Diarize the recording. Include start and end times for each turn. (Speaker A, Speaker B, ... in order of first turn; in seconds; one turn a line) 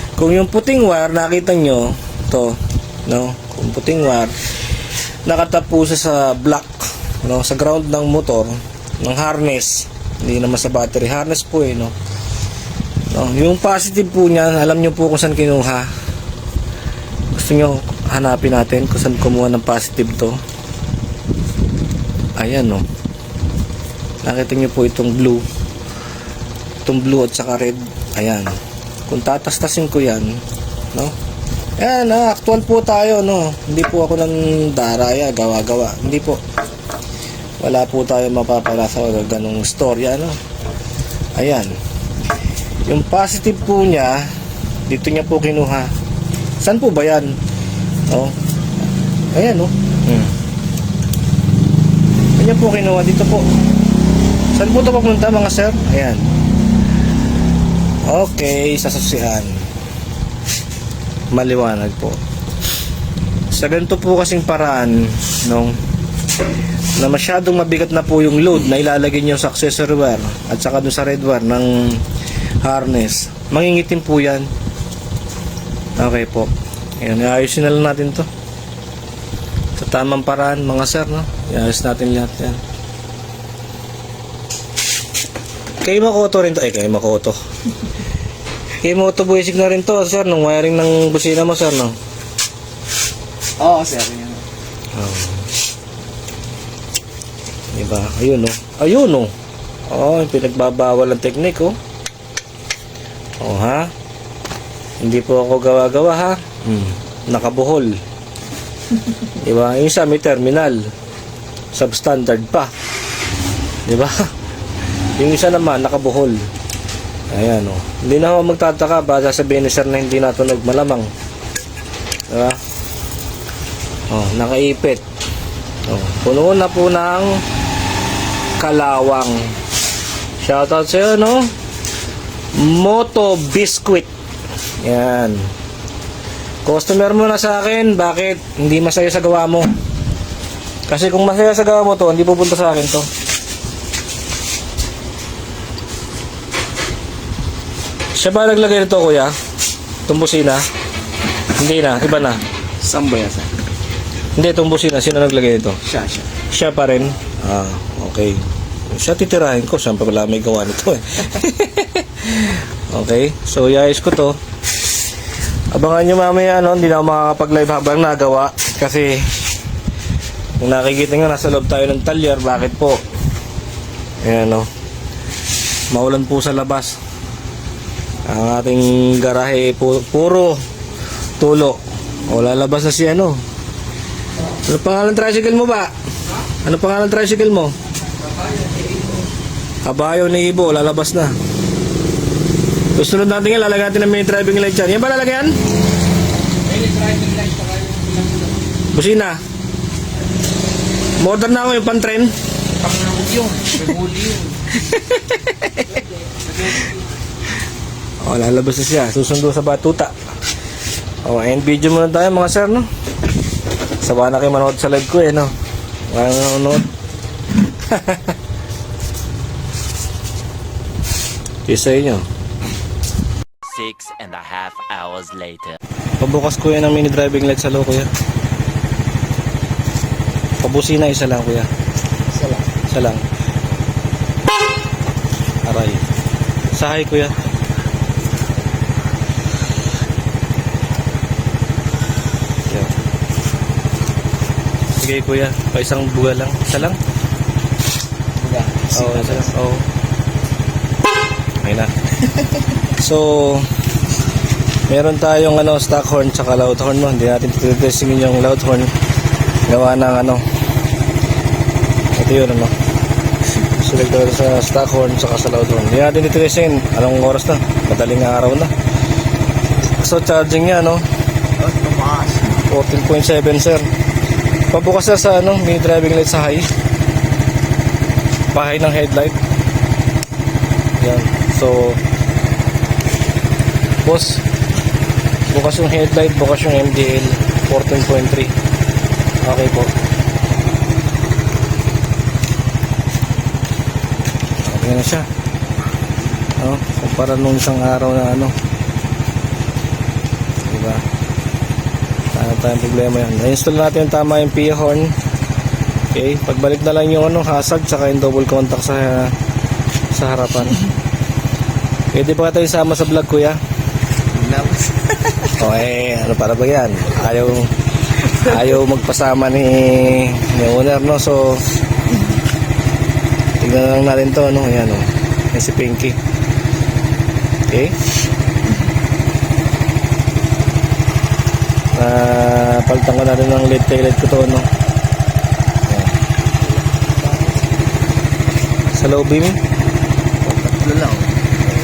Speaker A: 0.2-4.3
Speaker A: 5.2-11.9
Speaker A: 13.1-15.9
Speaker A: 17.3-20.4
Speaker A: 22.4-22.8
Speaker A: 24.2-25.4
Speaker A: 26.8-28.5
Speaker A: 29.1-30.4
Speaker A: 31.8-36.4
Speaker A: 37.6-40.4
Speaker A: 41.3-41.8
Speaker A: 42.8-44.3
Speaker A: 44.9-45.9
Speaker A: 46.6-47.4
Speaker A: 48.1-48.4
Speaker A: 49.3-50.3
Speaker A: 52.4-53.5
Speaker A: 54.5-56.3
Speaker A: 58.0-59.6
Speaker A: 61.3-62.2
Speaker A: 63.5-65.8
Speaker A: 67.0-72.0
Speaker A: 72.6-74.5
Speaker A: 76.0-78.3
Speaker A: 79.8-82.6
Speaker A: 85.8-87.4
Speaker A: 88.8-91.9
Speaker B: 93.6-94.4
Speaker A: 94.9-95.5
Speaker A: 97.7-99.3
Speaker A: 99.9-101.8
Speaker A: 103.4-103.9
Speaker A: 105.0-108.0
Speaker A: 109.2-110.8
Speaker A: 111.7-112.7
Speaker A: 113.8-114.2
Speaker A: 115.2-116.4
Speaker A: 117.3-121.1
Speaker A: 122.3-122.6
Speaker A: 124.1-125.0
Speaker A: 125.8-127.4
Speaker A: 128.6-129.5
Speaker A: 130.4-131.5
Speaker A: 132.5-134.1
Speaker A: 134.8-135.5
Speaker A: 136.6-139.7
Speaker A: 140.9-143.1
Speaker A: 148.1-149.3
Speaker A: 150.1-150.6
Speaker A: 151.6-152.4
Speaker B: 152.8-153.5
Speaker A: 154.3-155.8
Speaker B: 155.9-156.2
Speaker A: 156.5-164.4
Speaker A: 165.7-169.3
Speaker A: 170.6-173.0
Speaker A: 174.2-174.7
Speaker A: 175.9-177.0
Speaker A: 178.2-180.6
Speaker A: 181.4-183.4
Speaker A: 184.6-185.9
Speaker A: 186.6-187.7
Speaker C: 188.7-188.9
Speaker A: 189.8-191.3
Speaker A: 192.9-195.6
Speaker C: 196.7-198.6
Speaker A: 198.9-199.4
Speaker A: 201.2-202.3
Speaker C: 202.8-204.6
Speaker A: 204.7-206.0
Speaker A: 208.2-210.1
Speaker A: 211.2-212.9
Speaker A: 214.0-215.5
Speaker A: 216.1-216.9
Speaker A: 217.8-218.3
Speaker A: 221.7-222.2
Speaker D: 223.6-225.8
Speaker A: 226.2-228.1
Speaker A: 230.6-231.7
Speaker B: 232.3-232.7
Speaker A: 232.9-233.2
Speaker A: 235.6-236.1
Speaker A: 236.7-237.3
Speaker A: 242.7-242.9
Speaker A: 245.0-247.0
Speaker B: 248.4-249.5
Speaker A: 248.9-249.8
Speaker A: 251.6-252.0
Speaker A: 252.8-253.7
Speaker A: 254.9-258.9
Speaker A: 259.7-260.4
Speaker A: 262.1-262.7
Speaker A: 263.6-268.7
Speaker A: 270.0-271.0
Speaker B: 271.6-272.6
Speaker A: 272.6-273.9
Speaker A: 274.7-276.7
Speaker A: 278.5-279.4
Speaker A: 281.0-282.0
Speaker A: 284.0-284.4
Speaker A: 285.5-288.5
Speaker A: 289.4-289.9
Speaker A: 294.6-295.3
Speaker A: 296.6-298.5
Speaker A: 300.6-301.0
Speaker A: 302.3-305.1
Speaker A: 306.1-309.3
Speaker A: 310.1-310.9
Speaker A: 312.1-313.6
Speaker B: 314.3-315.1
Speaker A: 315.4-321.6
Speaker A: 323.6-326.2
Speaker A: 327.7-327.9
Speaker A: 331.9-334.7
Speaker B: 336.9-337.5
Speaker A: 338.9-339.6
Speaker B: 340.4-341.4